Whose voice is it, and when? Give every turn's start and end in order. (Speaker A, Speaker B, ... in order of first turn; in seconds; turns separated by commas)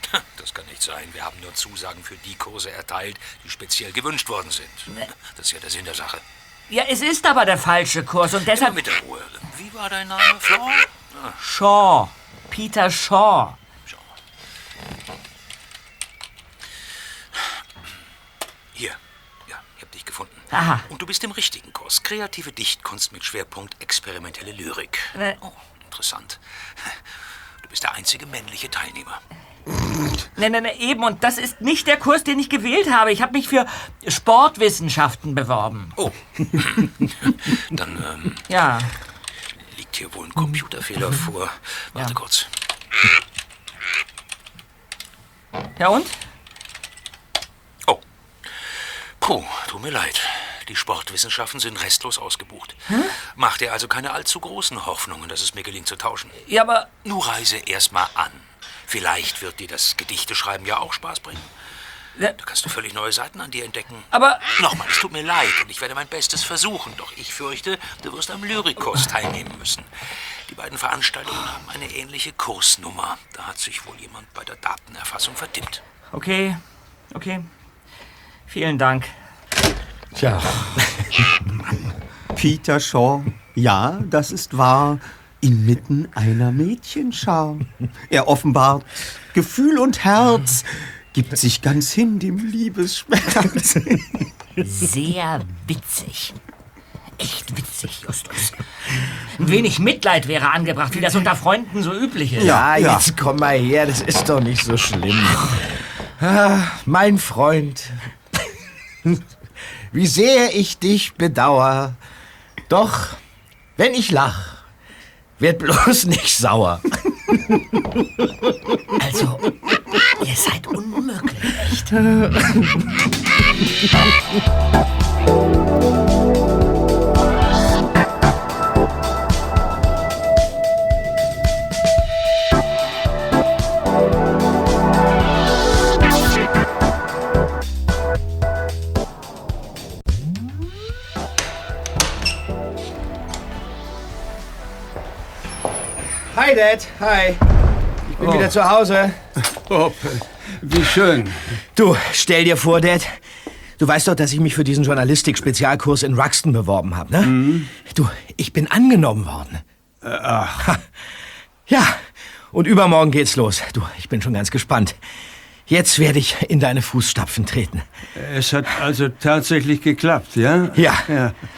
Speaker A: 0.1-6.2, Speaker B: 6.7-8.8, Speaker A: 8.5-11.3, Speaker B: 11.4-13.6, Speaker A: 19.5-26.4, Speaker B: 20.5-20.9, Speaker A: 27.6-29.2, Speaker B: 30.4-35.9, Speaker A: 36.0-38.4, Speaker B: 38.5-38.9, Speaker A: 39.6-42.5, Speaker B: 45.8-46.2, Speaker A: 49.2-56.4, Speaker B: 56.5-56.9, Speaker A: 57.0-61.5, Speaker A: 62.3-69.9, Speaker B: 64.1-64.4, Speaker A: 70.5-75.8, Speaker B: 76.1-76.6, Speaker B: 77.1-77.5, Speaker B: 78.5-79.1, Speaker C: 80.2-80.8, Speaker D: 82.3-94.1, Speaker B: 94.6-96.3, Speaker B: 97.2-102.6, Speaker D: 102.4-103.0, Speaker C: 102.4-108.0, Speaker C: 109.9-112.0, Speaker C: 112.7-113.2, Speaker C: 113.8-114.7, Speaker C: 115.4-117.4, Speaker B: 119.0-119.5, Speaker B: 120.2-121.9, Speaker C: 146.3-147.4, Speaker E: 148.1-148.5, Speaker C: 148.2-149.2, Speaker E: 149.5-151.5, Speaker C: 151.7-153.2, Speaker C: 153.8-159.6, Speaker E: 157.2-157.7, Speaker E: 160.0-160.7, Speaker C: 161.7-165.0, Speaker C: 165.7-167.8, Speaker E: 168.2-171.4, Speaker C: 170.7-171.1